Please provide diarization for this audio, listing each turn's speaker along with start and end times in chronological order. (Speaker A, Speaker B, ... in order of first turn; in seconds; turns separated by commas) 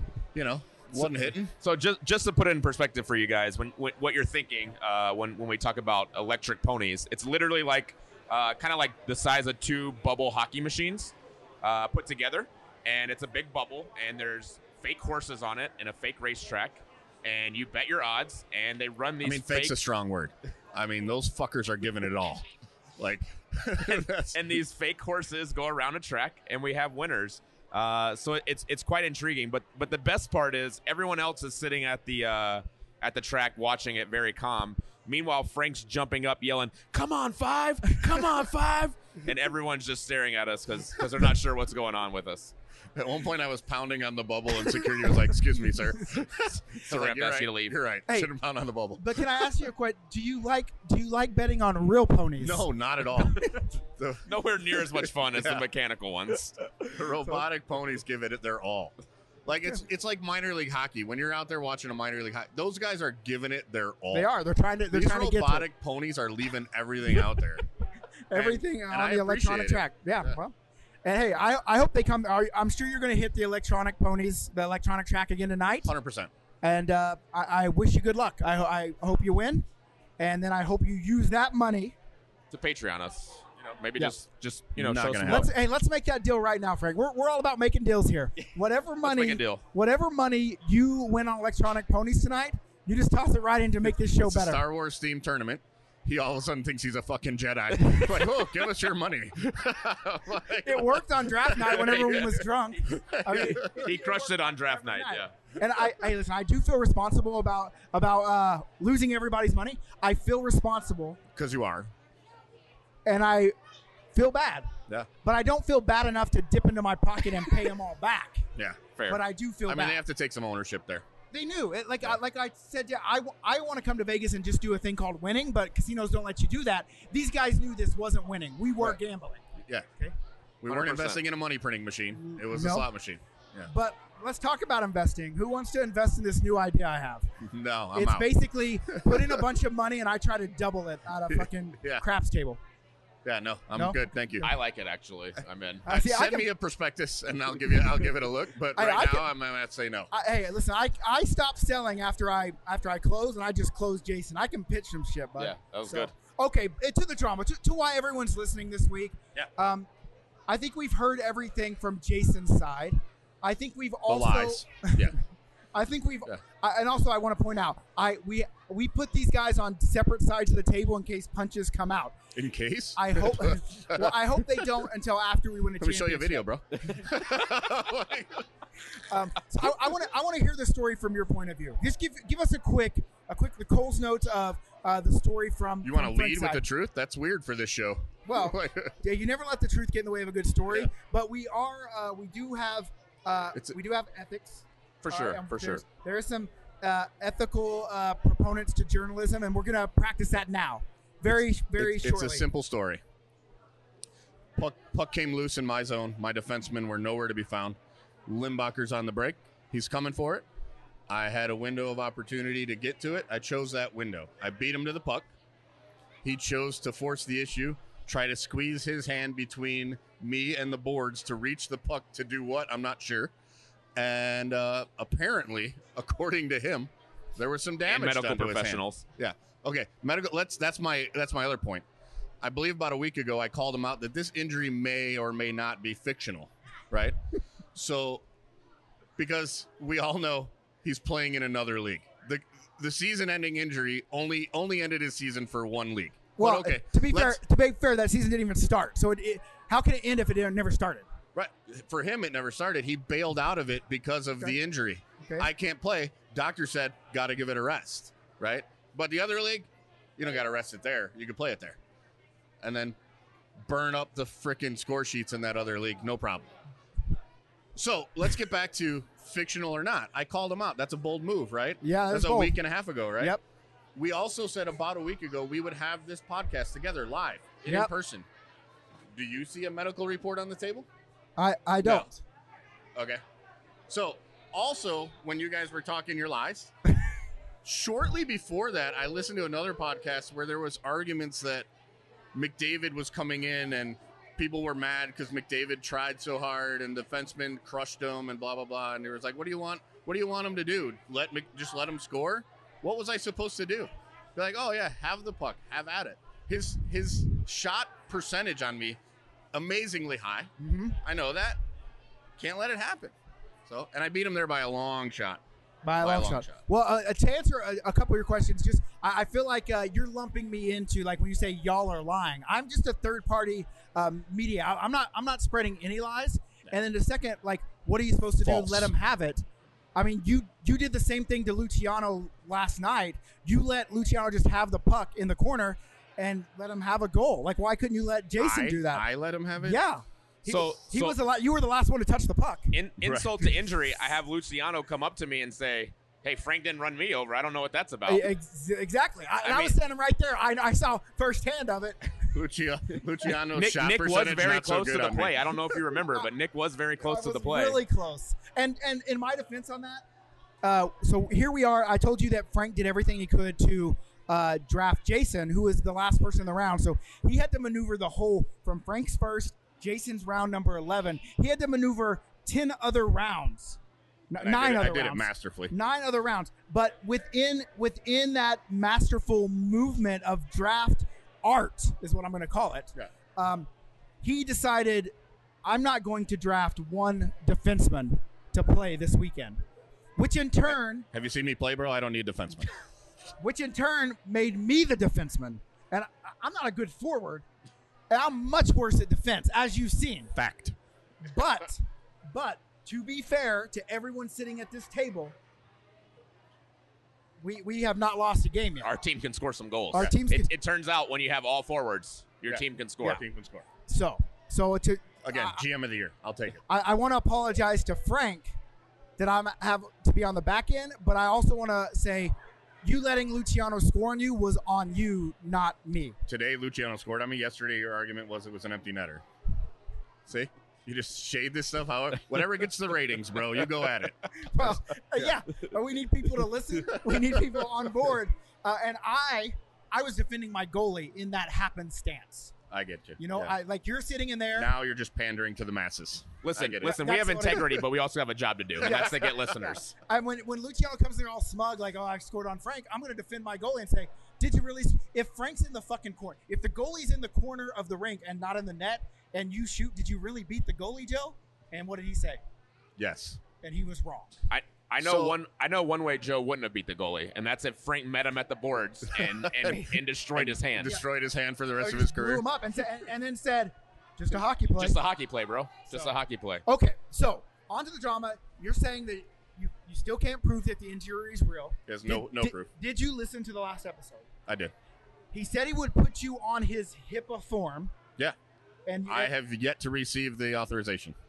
Speaker A: 0.3-1.5, Speaker B: 1.0-19.8, Speaker A: 19.2-22.4, Speaker A: 23.0-24.4, Speaker B: 23.9-42.5, Speaker A: 43.0-49.2, Speaker B: 46.8-47.8, Speaker C: 49.0-52.7, Speaker A: 52.4-55.7, Speaker B: 54.3-56.8, Speaker A: 56.8-59.0, Speaker A: 59.5-64.3, Speaker C: 64.1-65.7, Speaker A: 64.9-67.7, Speaker C: 68.3-75.9, Speaker A: 68.3-70.3, Speaker A: 75.8-76.3, Speaker C: 76.6-79.7, Speaker C: 80.2-82.0, Speaker B: 82.5-85.5, Speaker A: 84.8-85.5, Speaker C: 85.2-94.6, Speaker B: 89.0-89.6, Speaker A: 94.0-103.8, Speaker C: 100.6-111.2, Speaker B: 103.4-105.3, Speaker A: 111.3-111.9, Speaker C: 113.1-113.5, Speaker C: 114.1-114.7, Speaker C: 115.2-118.5, Speaker B: 119.0-119.2, Speaker C: 119.1-120.0, Speaker A: 119.7-121.1, Speaker C: 121.3-129.4, Speaker A: 130.6-133.7, Speaker B: 130.7-131.2, Speaker C: 132.2-132.9, Speaker C: 133.7-137.3, Speaker A: 137.4-138.3, Speaker C: 137.9-142.6, Speaker A: 138.9-139.4, Speaker A: 141.3-142.0, Speaker A: 143.2-144.5, Speaker C: 143.7-144.5, Speaker B: 144.4-145.9, Speaker C: 145.9-146.5, Speaker A: 145.9-150.1, Speaker C: 148.8-149.3, Speaker C: 150.1-159.9, Speaker B: 155.4-156.1, Speaker C: 160.5-165.2, Speaker A: 164.1-165.2, Speaker C: 165.7-172.2, Speaker A: 172.3-174.8, Speaker C: 173.0-176.5, Speaker A: 175.8-178.4, Speaker C: 179.0-186.6, Speaker A: 185.8-188.9, Speaker C: 188.3-202.5, Speaker B: 195.0-195.8, Speaker A: 201.8-203.0, Speaker A: 204.6-210.5, Speaker A: 211.1-215.3, Speaker A: 216.2-223.3, Speaker A: 224.0-231.8, Speaker B: 227.9-229.0, Speaker A: 232.4-237.2, Speaker A: 237.7-238.2, Speaker A: 239.2-247.4, Speaker C: 246.4-251.1, Speaker A: 251.3-261.8, Speaker C: 255.2-255.5, Speaker A: 262.6-263.0, Speaker A: 263.6-266.5, Speaker A: 267.8-273.4, Speaker C: 271.8-272.6, Speaker A: 273.9-278.3, Speaker C: 277.6-277.9, Speaker A: 279.1-280.9, Speaker C: 281.4-282.2, Speaker A: 281.8-282.1, Speaker A: 282.9-283.2, Speaker A: 283.9-286.7, Speaker A: 287.6-291.7, Speaker A: 292.3-309.0, Speaker A: 309.5-310.5, Speaker C: 310.6-311.0, Speaker A: 311.0-311.6, Speaker A: 312.4-313.1, Speaker A: 313.7-315.4, Speaker C: 315.8-329.4, Speaker A: 316.0-316.6, Speaker A: 328.4-328.9, Speaker C: 329.9-339.1, Speaker A: 338.4-339.8, Speaker C: 339.6-342.8, Speaker B: 340.5-341.2, Speaker B: 342.7-348.3, Speaker A: 343.0-343.3, Speaker C: 348.1-352.4, Speaker B: 349.4-349.8, Speaker A: 352.3-355.6, Speaker B: 353.5-357.8, Speaker C: 356.0-356.3, Speaker C: 357.0-360.0, Speaker C: 360.6-373.8, Speaker C: 374.3-383.7, Speaker A: 374.4-375.7, Speaker C: 384.2-385.1, Speaker C: 385.6-389.6, Speaker C: 390.2-391.1, Speaker A: 391.1-392.7, Speaker C: 393.4-397.4, Speaker C: 398.1-400.3, Speaker A: 400.4-400.8, Speaker C: 401.2-405.4, Speaker C: 407.4-408.9, Speaker B: 408.8-413.2, Speaker C: 409.9-410.5, Speaker A: 412.5-413.6, Speaker C: 413.9-415.6, Speaker A: 415.2-416.6, Speaker C: 416.7-418.6, Speaker C: 419.2-426.2, Speaker A: 426.3-429.2, Speaker A: 430.3-435.3, Speaker C: 434.4-442.5, Speaker A: 442.7-443.6, Speaker C: 443.2-444.7, Speaker A: 444.6-447.0, Speaker B: 446.4-449.9, Speaker C: 446.8-447.8, Speaker C: 448.8-449.4, Speaker C: 450.0-462.4, Speaker A: 463.0-463.4, Speaker C: 463.6-464.4, Speaker B: 464.5-471.0, Speaker A: 465.0-465.4, Speaker A: 469.2-472.4, Speaker C: 471.8-475.0, Speaker B: 474.7-476.6, Speaker C: 475.9-484.3, Speaker A: 481.9-482.7, Speaker A: 484.5-484.7, Speaker C: 485.3-487.9, Speaker C: 488.9-489.3, Speaker A: 489.1-491.2